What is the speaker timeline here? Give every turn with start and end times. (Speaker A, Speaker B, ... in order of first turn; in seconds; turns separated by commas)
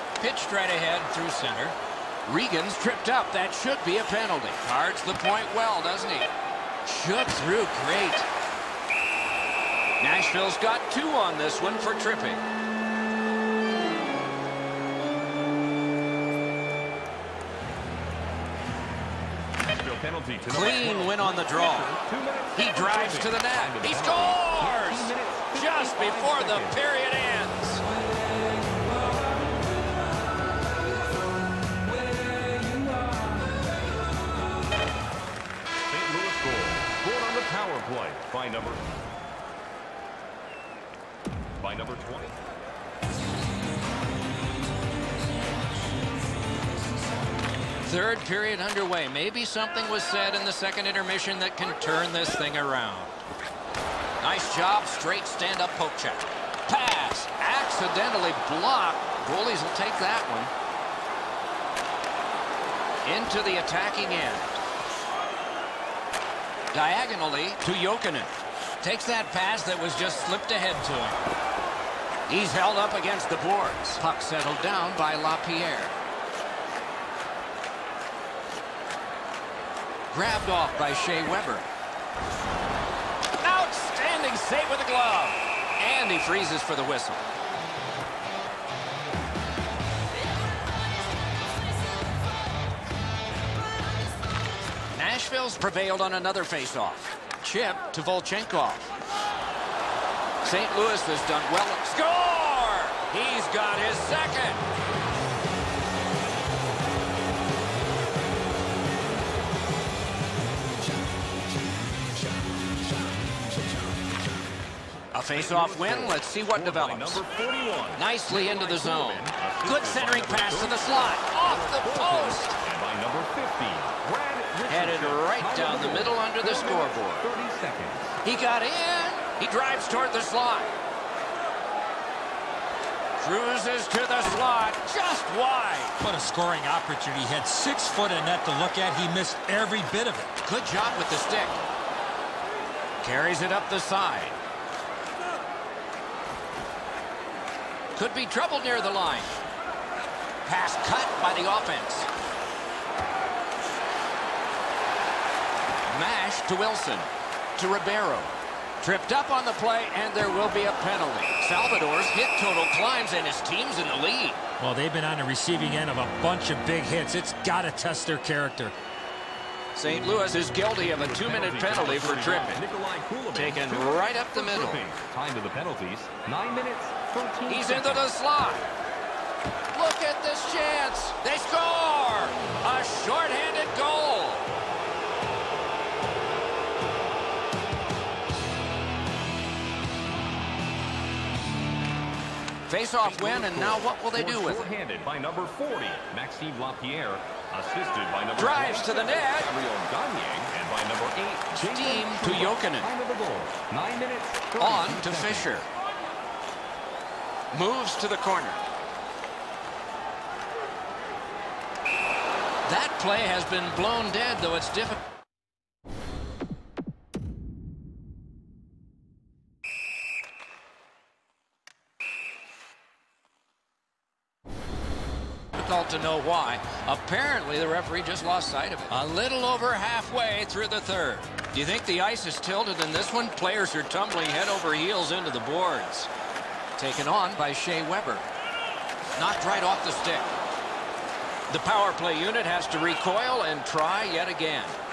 Speaker A: 0.2-6.3, Speaker A: 6.8-8.3, Speaker A: 10.0-12.4, Speaker B: 19.6-26.8, Speaker A: 20.5-22.0, Speaker A: 22.6-27.8, Speaker B: 27.9-29.6, Speaker B: 32.1-33.3, Speaker B: 35.9-38.9, Speaker B: 41.6-42.4, Speaker A: 47.8-53.2, Speaker A: 54.2-60.5, Speaker A: 63.0-64.6, Speaker A: 66.7-71.2, Speaker A: 72.3-76.0, Speaker A: 80.1-81.7, Speaker A: 83.4-87.2, Speaker A: 94.9-98.9, Speaker A: 100.4-104.6, Speaker A: 115.1-117.2, Speaker B: 115.3-128.2, Speaker A: 118.0-122.6, Speaker A: 124.7-127.3, Speaker A: 128.2-130.7, Speaker A: 133.2-136.0, Speaker C: 136.0-140.3, Speaker A: 140.4-141.6, Speaker A: 143.0-144.4, Speaker A: 148.0-149.4, Speaker A: 150.4-152.1, Speaker A: 155.9-164.4, Speaker C: 164.6-168.7, Speaker A: 169.8-172.6, Speaker B: 170.9-178.1, Speaker A: 173.3-174.9, Speaker A: 177.5-178.7, Speaker A: 179.7-184.4, Speaker A: 192.7-194.7, Speaker B: 193.0-205.5, Speaker A: 198.4-199.5, Speaker A: 201.5-202.9, Speaker A: 204.6-205.7, Speaker A: 207.5-208.6, Speaker A: 212.7-215.0, Speaker A: 225.5-236.1, Speaker A: 236.8-238.3, Speaker A: 239.2-240.3, Speaker A: 241.5-244.8